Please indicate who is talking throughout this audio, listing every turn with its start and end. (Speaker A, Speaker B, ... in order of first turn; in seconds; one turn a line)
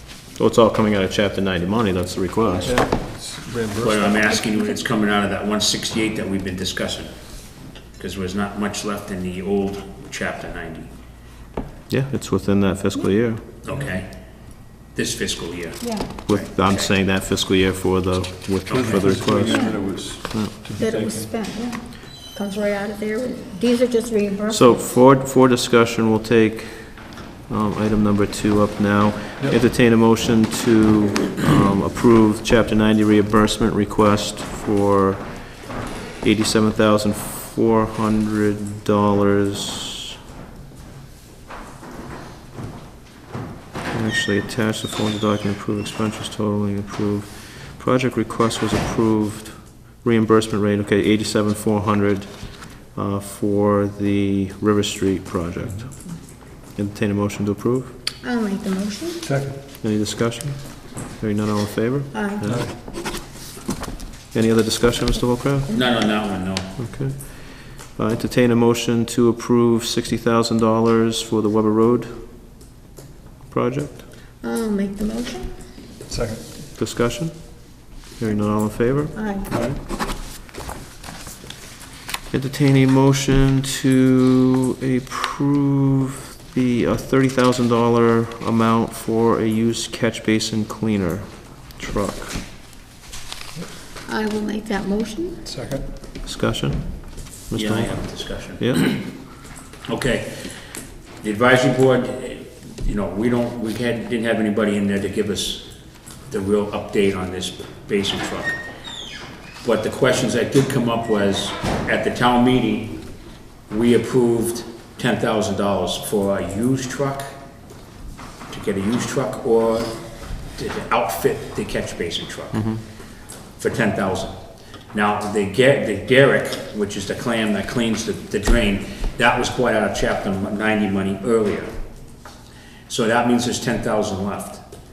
Speaker A: 0.4-2.8
Speaker B: 2.6-4.4
Speaker C: 3.8-7.1
Speaker D: 4.3-4.8
Speaker C: 8.0-10.9
Speaker A: 11.9-13.4
Speaker C: 13.6-14.1
Speaker C: 14.9-16.9
Speaker D: 15.8-16.1
Speaker A: 16.3-20.6
Speaker C: 18.7-19.2
Speaker B: 18.7-21.3
Speaker D: 19.5-19.9
Speaker D: 20.8-24.9
Speaker A: 24.5-40.1
Speaker A: 43.9-58.0
Speaker B: 55.6-55.9
Speaker D: 58.2-59.2
Speaker B: 59.2-59.6
Speaker A: 59.8-62.7
Speaker D: 62.1-62.5
Speaker B: 62.4-62.8
Speaker A: 64.3-65.7
Speaker C: 65.7-66.8
Speaker A: 66.8-72.5
Speaker A: 73.5-74.0
Speaker D: 74.4-75.5
Speaker B: 76.0-76.5
Speaker A: 76.8-79.8
Speaker D: 79.1-79.6
Speaker A: 82.3-92.4
Speaker D: 94.1-95.4
Speaker B: 95.4-95.9
Speaker A: 96.2-98.9
Speaker C: 97.5-99.1
Speaker C: 99.9-100.5
Speaker C: 101.2-105.7
Speaker C: 106.3-108.6
Speaker C: 109.6-113.0
Speaker C: 113.7-117.3
Speaker C: 118.5-119.9
Speaker C: 120.5-122.6
Speaker A: 122.5-122.8
Speaker C: 123.6-124.4
Speaker C: 124.9-131.7
Speaker C: 132.9-134.7